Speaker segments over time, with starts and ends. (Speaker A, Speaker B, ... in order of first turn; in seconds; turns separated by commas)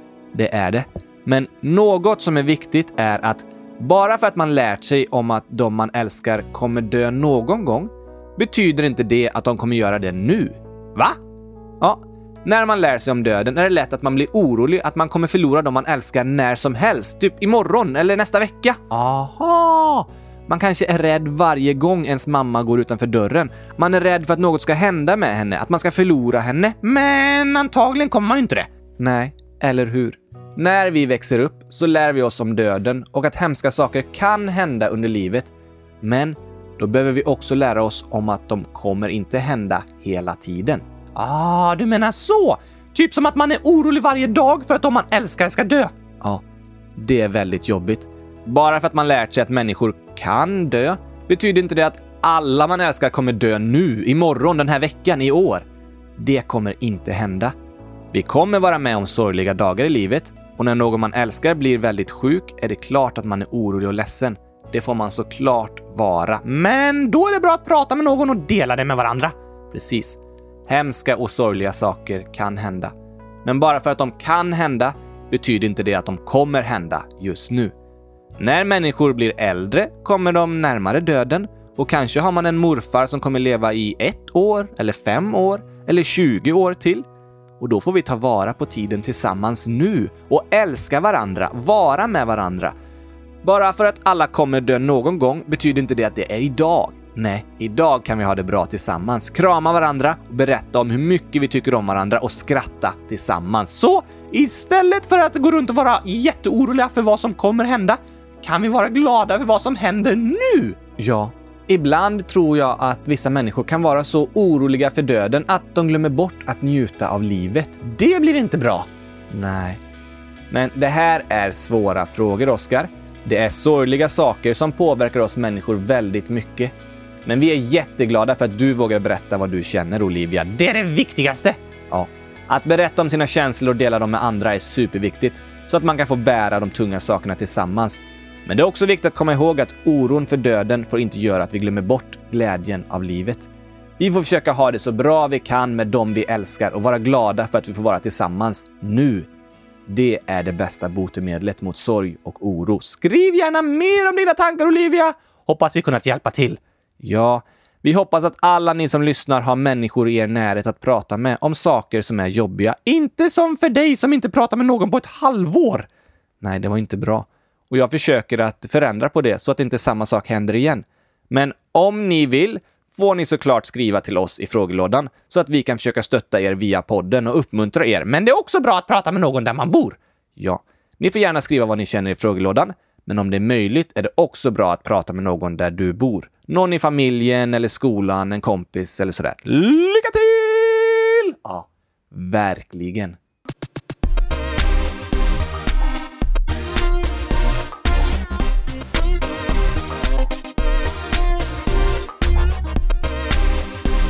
Speaker A: 0.3-11.2, Speaker A: 11.8-46.4, Speaker A: 47.0-55.6, Speaker A: 56.2-57.5, Speaker A: 58.1-72.9, Speaker A: 73.4-77.7, Speaker A: 78.4-87.0, Speaker A: 87.6-92.7, Speaker A: 93.4-119.8, Speaker A: 120.5-126.7, Speaker A: 127.2-149.3, Speaker A: 149.9-165.9, Speaker A: 166.4-193.2